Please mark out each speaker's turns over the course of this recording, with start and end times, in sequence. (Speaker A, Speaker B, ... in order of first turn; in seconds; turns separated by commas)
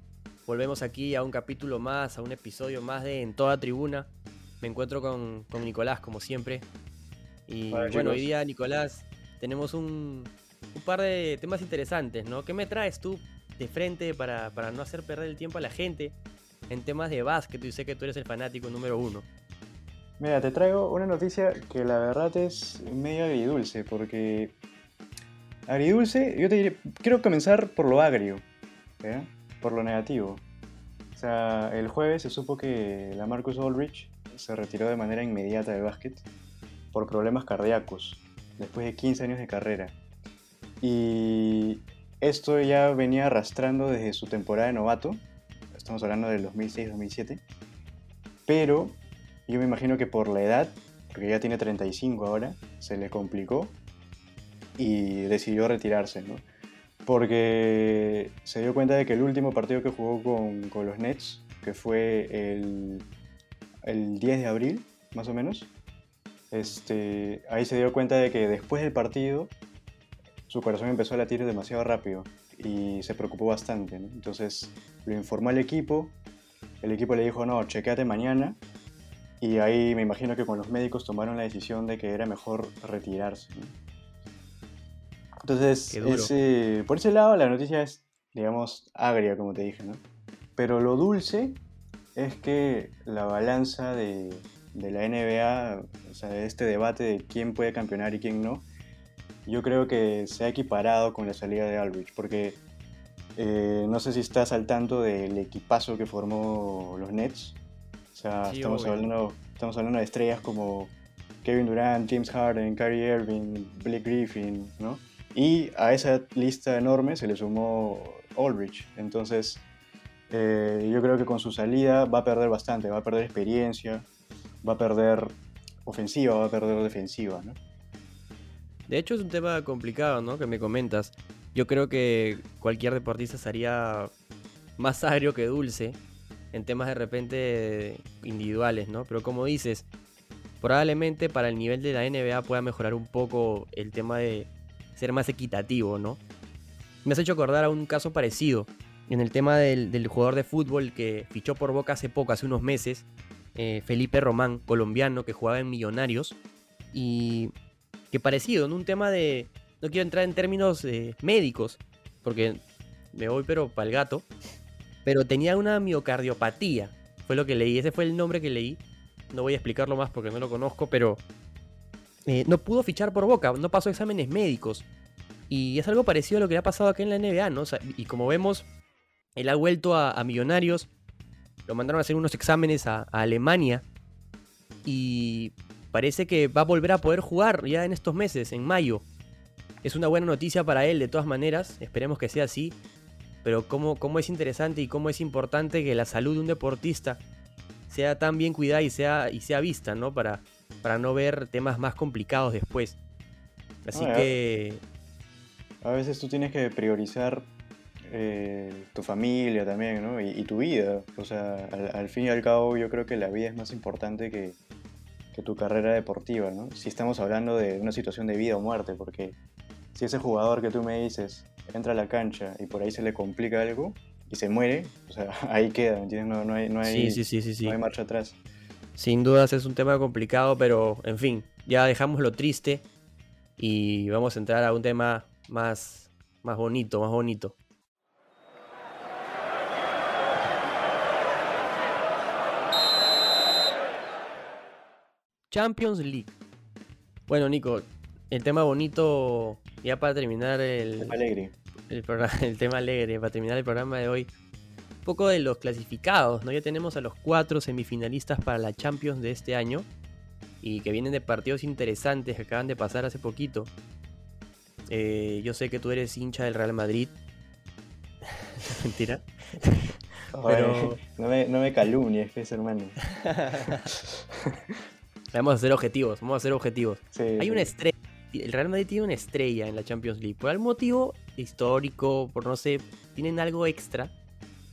Speaker A: 0.4-6.7, Speaker A: 7.5-16.2, Speaker B: 7.7-8.3, Speaker A: 16.7-19.3, Speaker B: 20.2-24.6, Speaker B: 25.7-28.4, Speaker B: 29.0-30.4, Speaker B: 31.1-36.2, Speaker B: 36.9-40.0, Speaker B: 40.8-47.4, Speaker B: 48.5-53.8, Speaker B: 54.8-56.4, Speaker B: 57.0-63.0, Speaker B: 63.8-65.7, Speaker B: 66.5-69.5, Speaker B: 70.5-76.2, Speaker B: 76.8-78.6, Speaker B: 79.4-83.7, Speaker B: 85.4-90.0, Speaker A: 85.9-86.3, Speaker B: 90.6-91.6, Speaker B: 92.2-98.7, Speaker B: 99.5-102.6, Speaker B: 103.3-107.6, Speaker B: 108.1-119.7, Speaker A: 108.4-109.1, Speaker B: 120.3-124.1, Speaker B: 124.6-127.6, Speaker A: 128.9-134.1, Speaker A: 134.8-136.0, Speaker A: 136.5-139.9, Speaker A: 140.6-146.2, Speaker A: 147.0-156.4, Speaker A: 156.9-157.5, Speaker A: 158.1-164.3, Speaker A: 165.0-171.2, Speaker A: 172.2-174.9, Speaker A: 175.5-178.7, Speaker A: 179.3-180.9, Speaker A: 181.7-183.8, Speaker A: 184.8-189.1, Speaker A: 189.8-192.8, Speaker A: 193.4-197.2, Speaker A: 197.9-203.0, Speaker A: 203.8-204.8, Speaker B: 203.9-204.3, Speaker B: 205.8-207.5, Speaker B: 208.1-214.6, Speaker B: 215.3-219.3, Speaker B: 219.9-228.4, Speaker A: 226.8-227.8, Speaker A: 229.0-232.8, Speaker A: 233.6-237.5, Speaker A: 245.5-246.4, Speaker A: 247.3-251.2, Speaker B: 251.0-251.5, Speaker A: 251.9-254.3, Speaker A: 255.0-259.9, Speaker A: 260.6-263.7, Speaker A: 264.9-267.1, Speaker A: 268.6-271.0, Speaker B: 270.3-273.0, Speaker A: 273.2-273.9, Speaker A: 275.3-284.1, Speaker B: 277.1-277.7